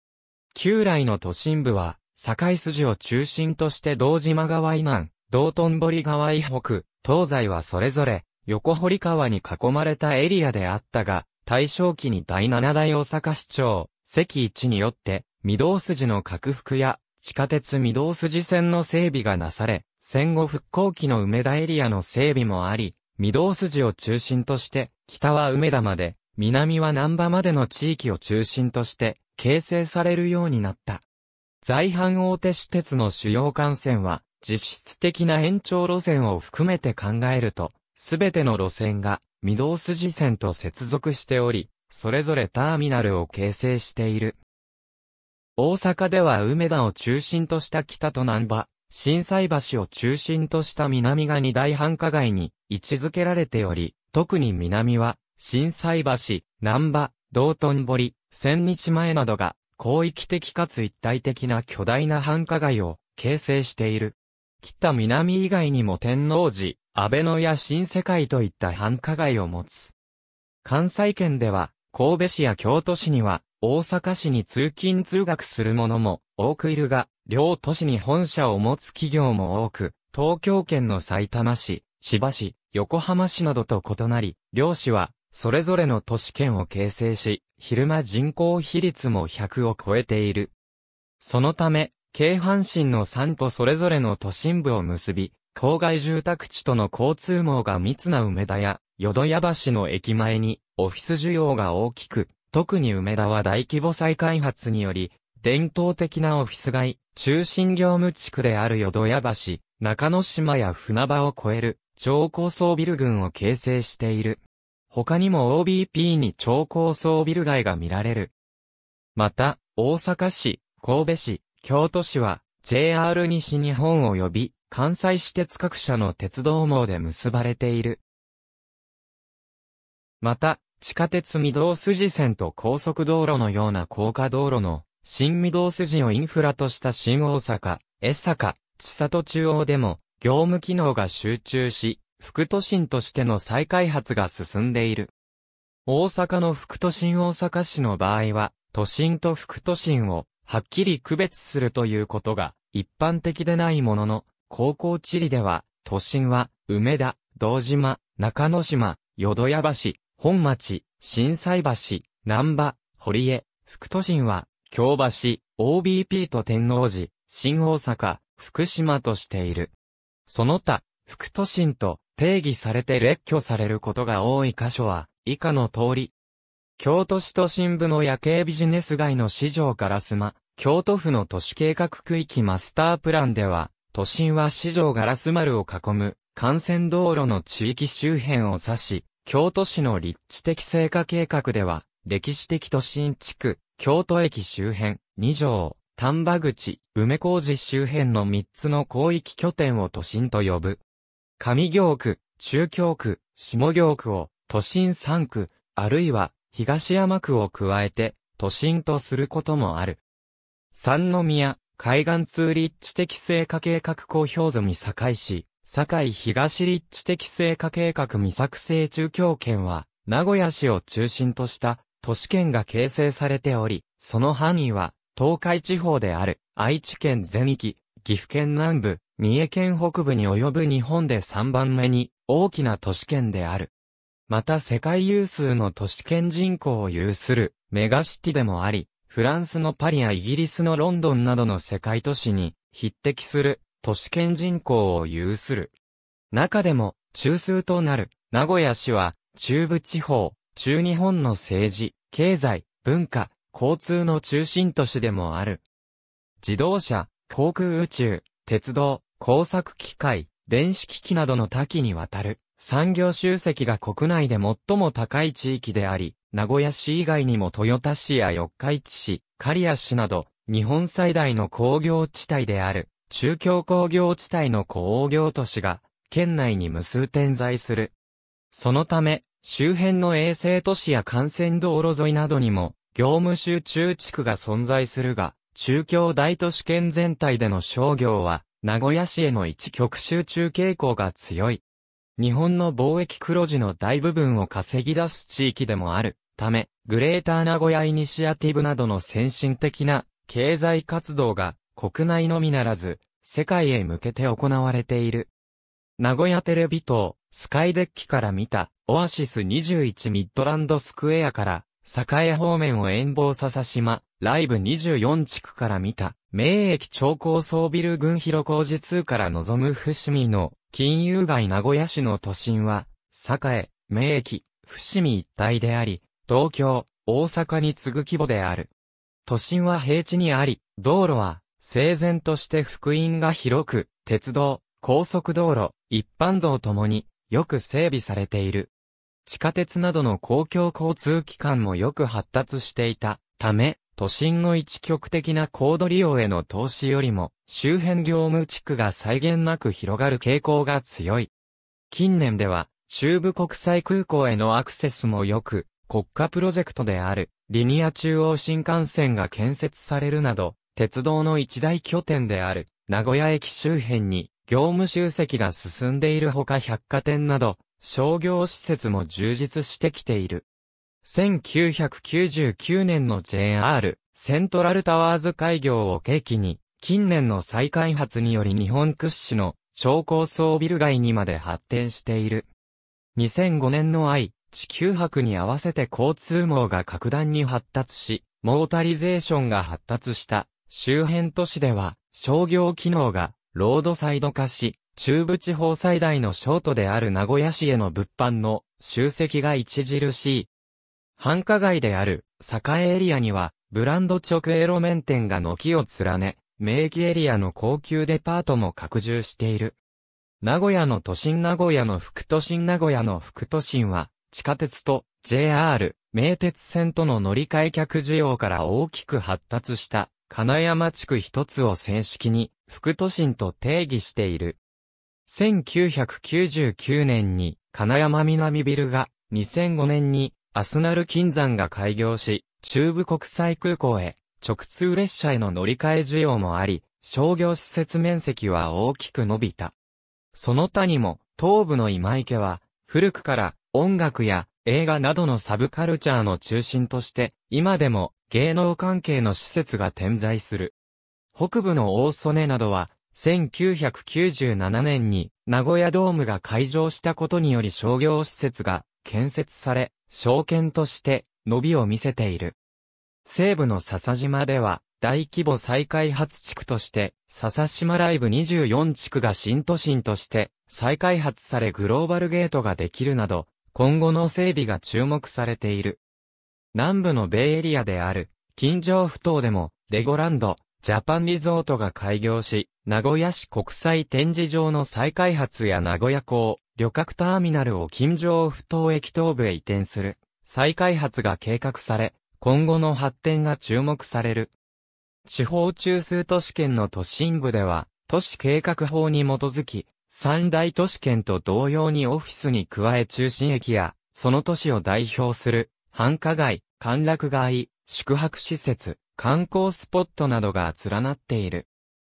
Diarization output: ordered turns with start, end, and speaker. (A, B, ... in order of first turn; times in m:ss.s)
0:00.5-0:31.0 A
0:31.6-0:44.4 A
0:45.6-1:10.0 A
1:10.6-1:30.5 A
1:31.2-1:54.4 A
1:54.9-1:58.3 A
1:59.2-2:08.0 A
2:10.2-2:25.1 A
2:25.9-2:49.7 A
2:50.3-2:56.1 A
2:56.8-3:20.8 A
3:21.4-3:30.0 A
3:30.7-3:53.7 A
3:54.3-4:05.7 A
4:06.3-4:15.6 A
4:16.4-4:37.9 A
4:38.5-4:51.6 A
4:52.2-5:05.3 A
5:06.0-5:28.7 A
5:29.3-5:38.7 A
5:39.3-5:51.3 A
5:51.9-6:10.4 A
6:11.0-6:22.5 A
6:23.2-6:40.5 A
6:41.2-6:49.8 A
6:50.4-7:04.6 A
7:05.3-7:19.7 A
7:20.3-7:30.7 A
7:31.4-7:42.6 A
7:43.2-7:56.0 A
7:56.7-8:14.5 A
8:15.3-8:31.7 A